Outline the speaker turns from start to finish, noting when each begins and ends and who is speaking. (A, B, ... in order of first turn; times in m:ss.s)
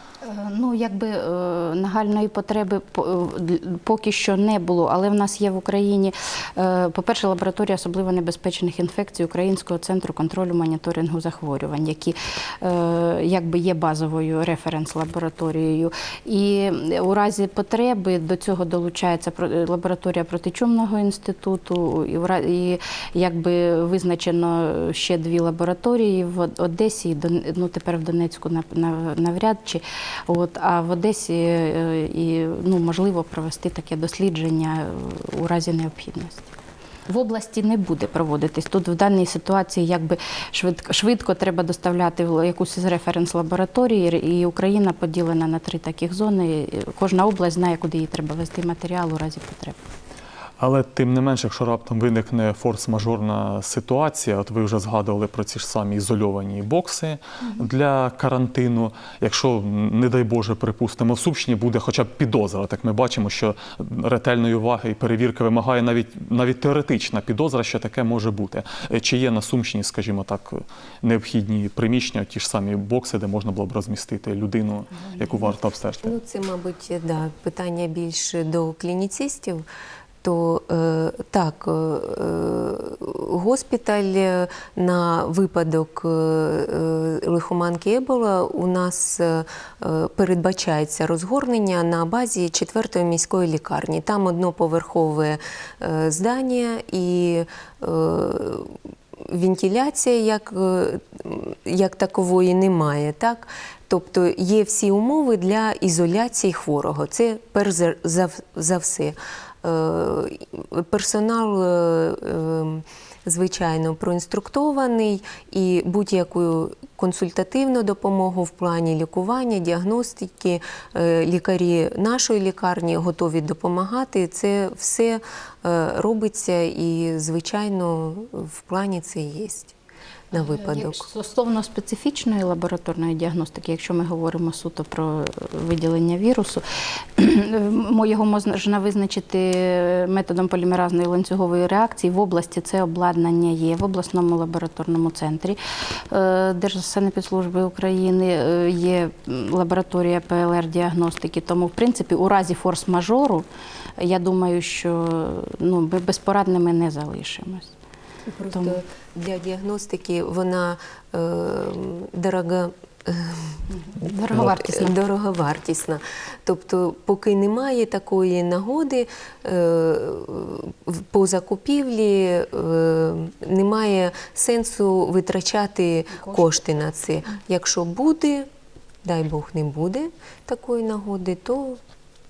0:00.2-0:36.5 A
0:37.1-0:49.8 A
0:50.6-1:16.2 B
1:15.0-1:15.4 A
1:16.0-1:19.6 C
1:20.2-2:09.8 C
2:10.3-2:11.1 C
2:10.3-2:16.6 A
2:17.2-2:25.6 A
2:26.1-2:33.4 A
2:34.0-2:37.7 A
2:38.3-2:43.6 C
2:38.5-2:38.8 A
2:43.9-2:45.0 A
2:44.3-2:58.5 C
2:56.2-2:56.5 A
2:59.0-3:01.8 C